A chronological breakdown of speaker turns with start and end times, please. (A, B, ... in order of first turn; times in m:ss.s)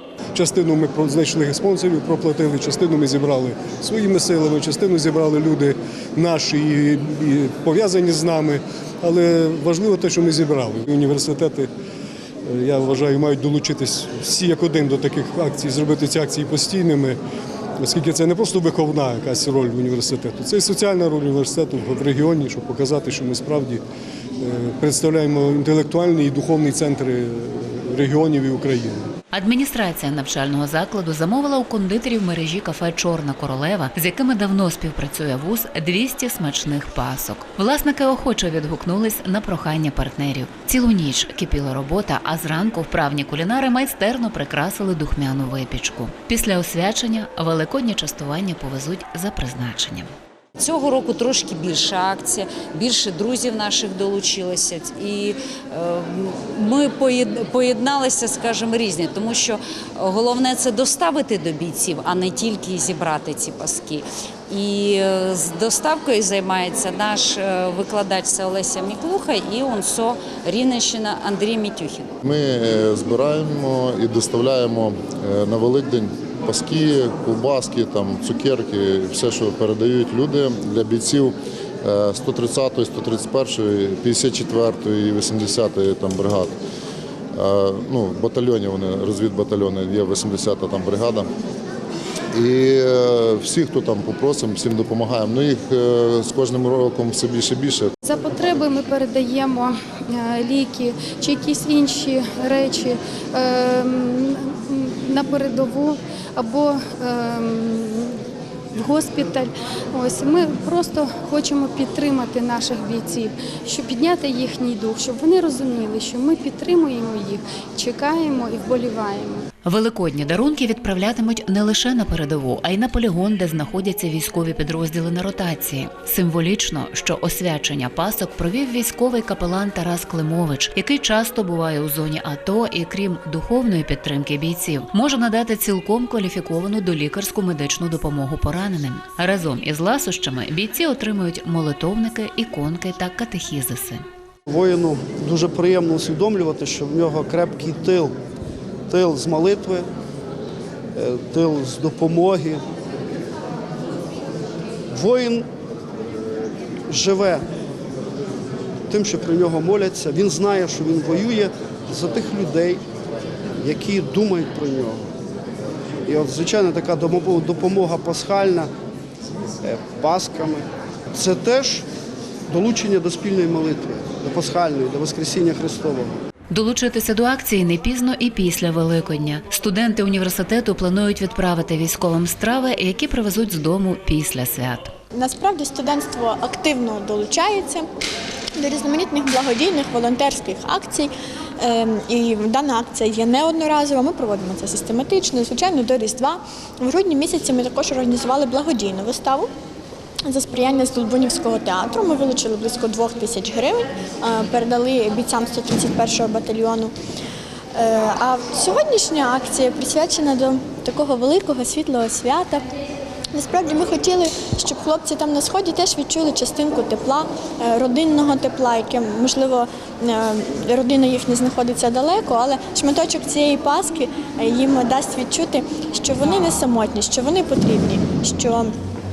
0:00.3-0:11.7 A
0:12.4-0:17.2 A
0:17.8-0:23.8 A
0:24.4-0:29.0 A
0:29.3-0:50.1 B
0:50.6-1:12.1 C
1:12.2-1:26.5 D
1:27.3-1:31.3 D
1:32.3-1:37.9 D
1:38.0-1:48.2 E
1:48.7-1:59.4 E
1:59.6-2:24.0 B
2:24.5-2:28.1 F
2:28.9-2:29.9 F
2:30.9-2:32.6 F
2:34.9-2:35.5 F
2:36.9-2:37.4 F
2:38.9-2:42.8 F
2:43.6-2:45.1 F
2:46.1-2:48.7 F
2:49.6-2:51.8 F
2:52.5-2:56.1 F
2:56.5-3:04.9 B
3:05.1-3:07.9 G
3:08.6-3:19.5 G
3:20.2-3:26.9 G
3:27.7-3:32.6 G
3:33.3-3:48.7 G